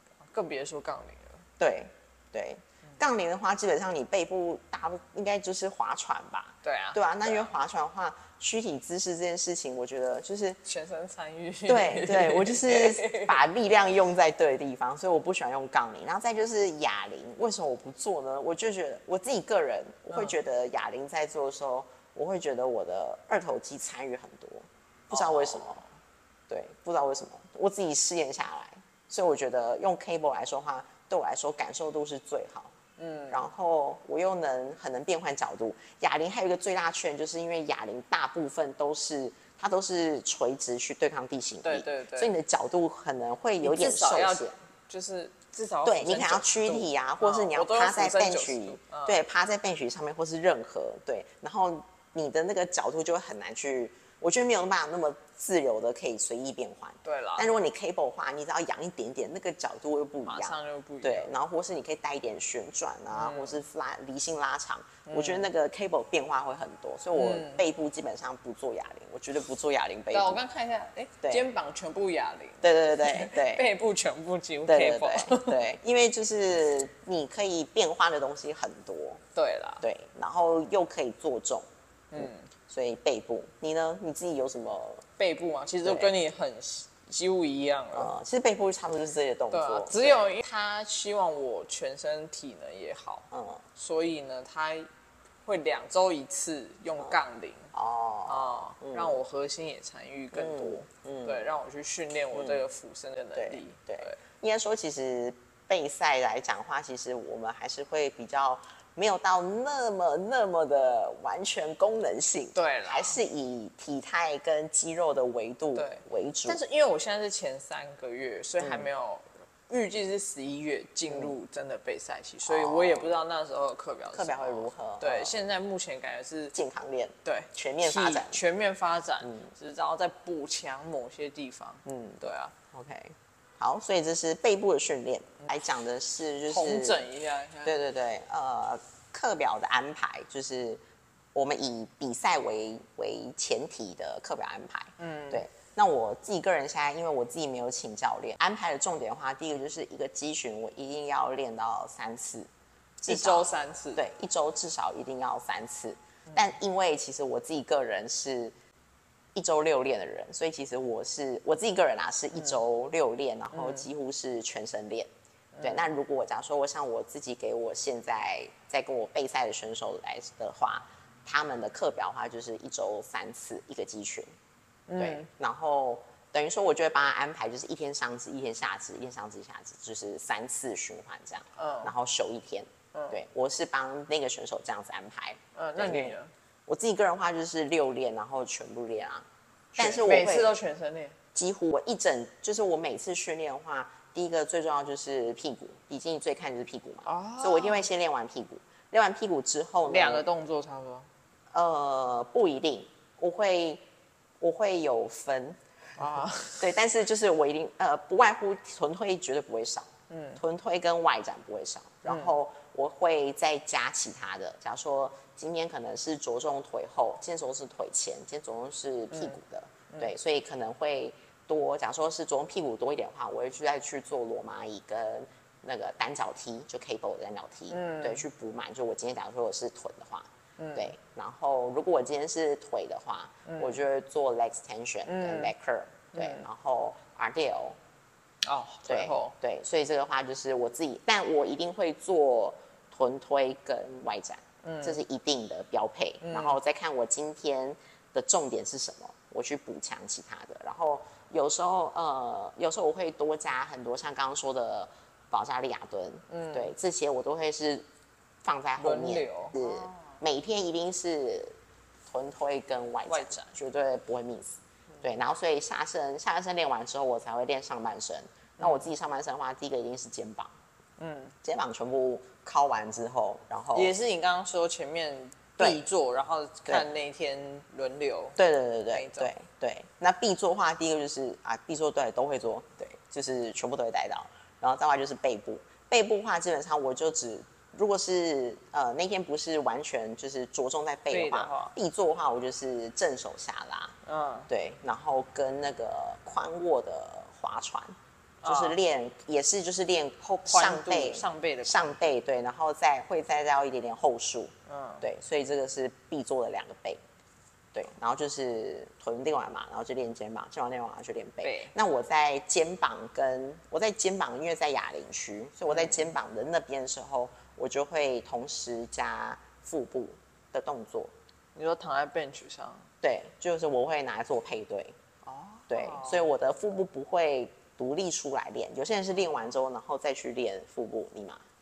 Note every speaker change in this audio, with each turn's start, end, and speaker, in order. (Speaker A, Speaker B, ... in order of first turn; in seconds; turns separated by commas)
Speaker A: 0.2-1.4, Speaker B: 1.6-10.6, Speaker A: 6.6-7.5, Speaker A: 10.6-13.4, Speaker B: 11.7-25.8, Speaker A: 25.1-25.9, Speaker B: 26.5-32.8, Speaker A: 33.0-33.4, Speaker B: 33.3-44.5, Speaker A: 41.6-42.3, Speaker A: 43.6-49.2, Speaker B: 45.9-70.4, Speaker A: 57.0-57.6, Speaker A: 60.3-61.4, Speaker A: 63.1-63.6, Speaker A: 65.1-65.5, Speaker A: 67.2-67.6, Speaker A: 70.1-75.6, Speaker B: 71.2-71.5, Speaker B: 72.6-73.7, Speaker B: 74.7-79.2, Speaker A: 79.3-79.9, Speaker B: 79.8-85.1, Speaker A: 82.1-82.5, Speaker A: 85.2-88.1, Speaker B: 85.8-86.1, Speaker B: 87.9-90.4, Speaker A: 89.5-94.9, Speaker B: 93.3-93.7, Speaker A: 95.5-97.7, Speaker B: 97.7-99.2, Speaker A: 98.3-104.2, Speaker B: 100.3-101.5, Speaker B: 102.3-102.6, Speaker B: 103.4-116.6, Speaker A: 112.5-113.2, Speaker A: 115.8-126.5, Speaker B: 118.6-118.9, Speaker B: 121.1-121.3, Speaker B: 122.5-123.1, Speaker B: 124.1-125.4, Speaker B: 126.5-128.4, Speaker A: 127.2-132.6, Speaker B: 129.2-129.5, Speaker B: 131.8-132.2, Speaker B: 132.7-137.1, Speaker A: 136.5-137.8, Speaker B: 137.6-140.8, Speaker B: 141.3-152.5, Speaker A: 145.0-145.4, Speaker B: 153.0-158.5, Speaker A: 153.1-154.0, Speaker B: 159.3-165.1, Speaker A: 163.5-163.9, Speaker A: 165.5-165.9, Speaker B: 165.6-174.3, Speaker A: 174.9-175.3, Speaker B: 175.0-190.6, Speaker A: 181.6-181.9, Speaker A: 185.6-186.3, Speaker A: 189.8-191.2, Speaker B: 191.3-200.3, Speaker A: 197.1-197.9, Speaker A: 199.9-201.1, Speaker B: 201.5-203.8, Speaker B: 204.4-205.6, Speaker A: 206.0-206.7, Speaker B: 206.6-237.8, Speaker A: 210.1-210.4, Speaker A: 212.1-212.3, Speaker A: 219.1-219.4, Speaker A: 227.7-228.2, Speaker A: 230.6-230.9, Speaker A: 233.5-233.8, Speaker A: 235.1-235.5, Speaker A: 236.1-236.4, Speaker A: 238.4-239.3, Speaker B: 238.9-257.9, Speaker A: 244.6-245.0, Speaker A: 246.2-246.6, Speaker A: 256.3-256.7, Speaker B: 258.4-261.6, Speaker A: 258.8-260.2, Speaker B: 262.1-270.5, Speaker A: 263.1-263.6, Speaker A: 268.6-268.9, Speaker A: 271.0-271.4, Speaker B: 271.4-273.9, Speaker A: 273.7-278.4, Speaker B: 278.4-294.0, Speaker A: 278.9-279.3, Speaker A: 291.1-291.7, Speaker A: 294.0-294.5, Speaker B: 294.5-307.0, Speaker A: 298.4-298.8, Speaker A: 300.2-301.9, Speaker A: 304.7-305.1, Speaker B: 307.7-321.1, Speaker A: 311.4-311.7, Speaker A: 315.7-316.1, Speaker A: 321.6-322.9, Speaker B: 323.0-325.0, Speaker A: 325.2-326.3, Speaker B: 325.7-331.5